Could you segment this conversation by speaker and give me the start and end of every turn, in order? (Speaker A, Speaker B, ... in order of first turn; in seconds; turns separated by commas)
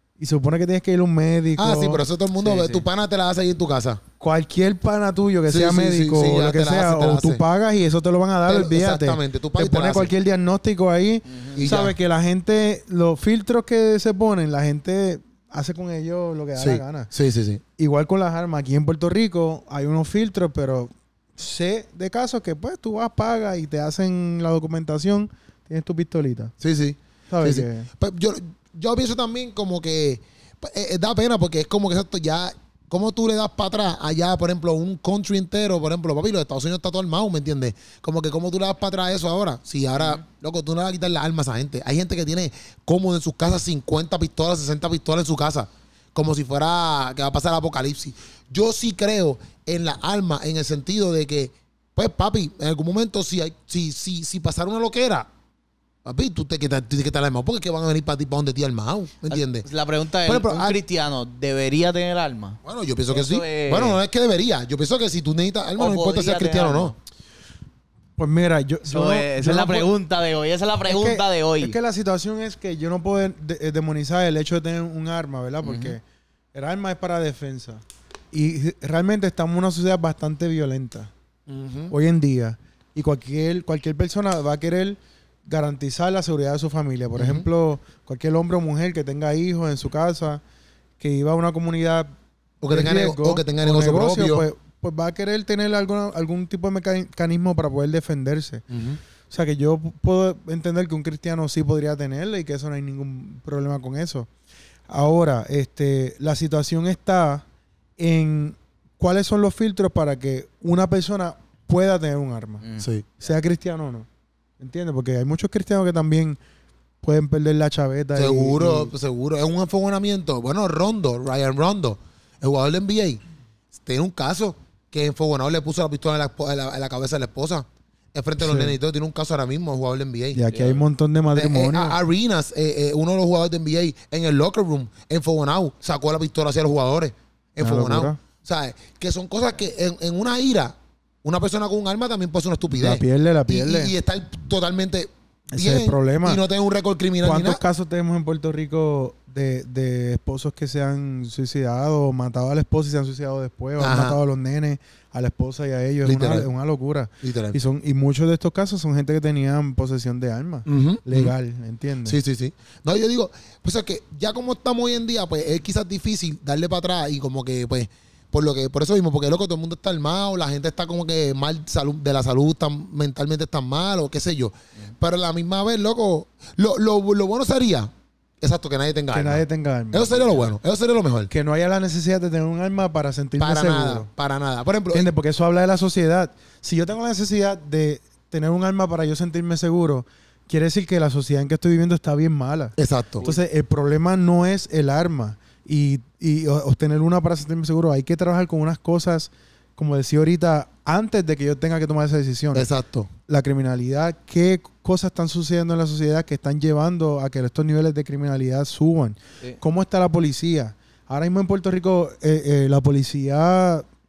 Speaker A: 0.2-2.0, Speaker B: 1.6-4.0, Speaker C: 2.4-2.9, Speaker A: 4.2-17.1, Speaker B: 5.5-7.4, Speaker B: 8.5-10.1, Speaker C: 11.3-11.7, Speaker B: 11.6-12.0, Speaker B: 16.6-17.6, Speaker A: 17.8-26.5, Speaker B: 26.6-55.3, Speaker A: 27.3-27.9, Speaker C: 40.0-40.2, Speaker B: 56.0-59.7, Speaker C: 59.3-62.6, Speaker B: 60.2-60.8, Speaker B: 62.6-66.9, Speaker C: 63.1-64.0, Speaker C: 65.8-67.0, Speaker A: 68.2-69.9, Speaker C: 68.9-71.8, Speaker A: 70.9-76.0, Speaker C: 75.6-76.0, Speaker A: 76.5-81.1, Speaker B: 81.5-81.9, Speaker A: 81.9-90.4, Speaker B: 87.2-87.5, Speaker A: 91.0-92.1, Speaker B: 92.6-94.5, Speaker A: 92.7-98.7, Speaker B: 98.7-99.0, Speaker A: 99.3-104.3, Speaker A: 104.9-107.5, Speaker A: 108.0-112.7, Speaker C: 112.6-113.3, Speaker B: 112.8-113.0, Speaker A: 113.2-114.1, Speaker A: 114.6-116.4, Speaker A: 117.0-118.9, Speaker B: 118.2-123.2, Speaker B: 123.7-130.4, Speaker A: 128.4-128.8, Speaker A: 130.3-132.0, Speaker C: 130.5-130.8, Speaker B: 131.3-147.6, Speaker A: 137.6-138.2, Speaker A: 142.7-143.9, Speaker A: 145.5-146.4, Speaker A: 147.2-162.2, Speaker B: 153.8-154.2, Speaker B: 156.1-156.5, Speaker B: 157.2-157.6, Speaker B: 160.7-161.3, Speaker B: 162.1-181.3, Speaker A: 179.1-180.3, Speaker A: 181.3-184.1, Speaker B: 183.4-185.1, Speaker A: 184.9-202.7, Speaker B: 192.8-193.3, Speaker B: 202.5-203.1, Speaker A: 203.3-213.9